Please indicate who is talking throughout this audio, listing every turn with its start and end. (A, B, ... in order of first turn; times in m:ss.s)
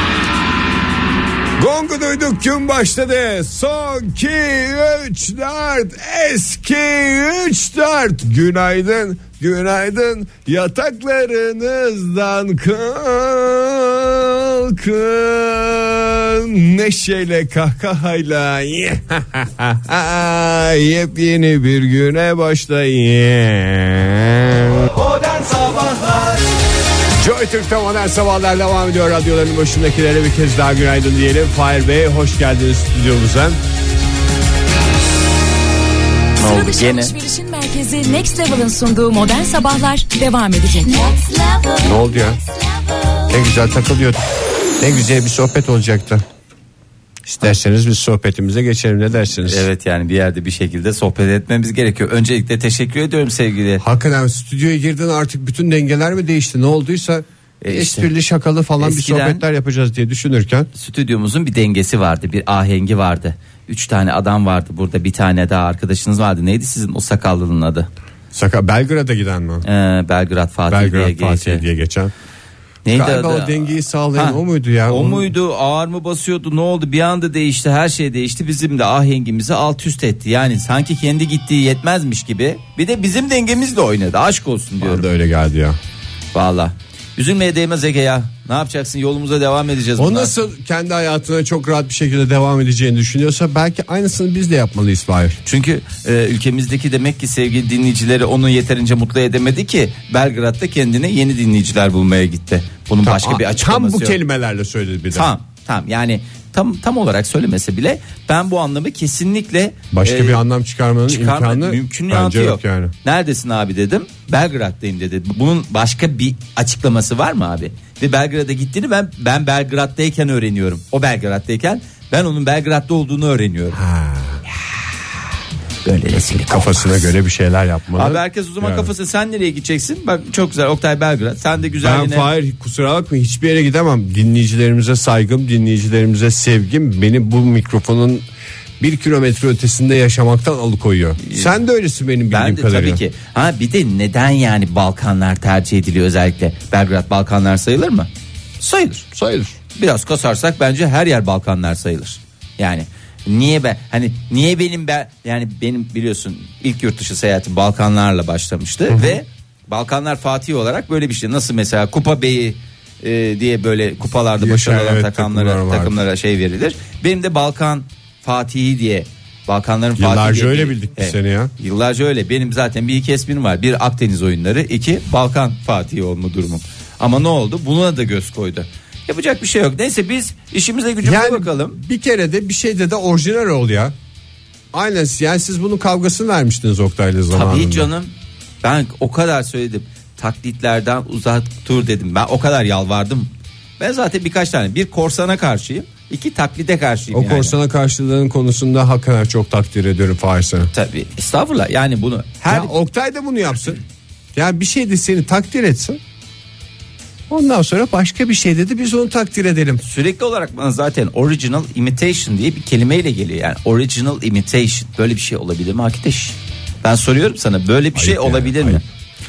0:01.6-0:24.9 A
0:27.2-0:33.6 A
0:36.4-0:37.1 B
0:36.4-0:41.9 C
0:41.8-0:42.4 A
0:43.3-0:44.3 A
0:44.8-0:46.2 A
0:47.3-0:49.7 A
0:49.4-0:53.8 B
0:53.8-1:00.7 A
0:57.6-0:58.1 B
0:58.8-0:59.4 B
1:00.8-1:07.9 B
1:08.3-1:09.6 A
1:09.6-1:11.6 B
1:10.7-1:12.1 A
1:12.8-1:13.6 B
1:12.9-1:15.3 A
1:14.2-1:25.1 B
1:24.8-1:25.8 A
1:26.3-1:30.3 B
1:30.0-1:35.4 A
1:35.4-1:44.2 B
1:43.0-1:45.3 A
1:45.1-1:50.4 B
1:49.9-1:52.9 A
1:51.1-2:03.8 B
2:03.8-2:04.4 A
2:05.8-2:07.2 B
2:06.1-2:08.9 A
2:08.0-2:12.3 B
2:11.8-2:18.2 A
2:18.8-2:23.0 A
2:21.2-2:21.5 B
2:22.3-2:28.1 B
2:28.6-2:29.1 B
2:29.1-2:29.6 A
2:29.8-3:01.8 B
2:38.9-2:39.2 A
2:44.4-2:46.0 A
2:50.0-2:51.5 A
3:01.0-3:03.9 A
3:04.7-3:07.9 A
3:07.3-3:08.1 B
3:08.6-3:17.6 B
3:17.1-3:20.7 A
3:20.7-3:22.7 B
3:22.5-3:23.8 A
3:24.3-3:26.0 A
3:27.3-3:29.8 A
3:29.8-3:38.8 B
3:38.0-3:38.8 A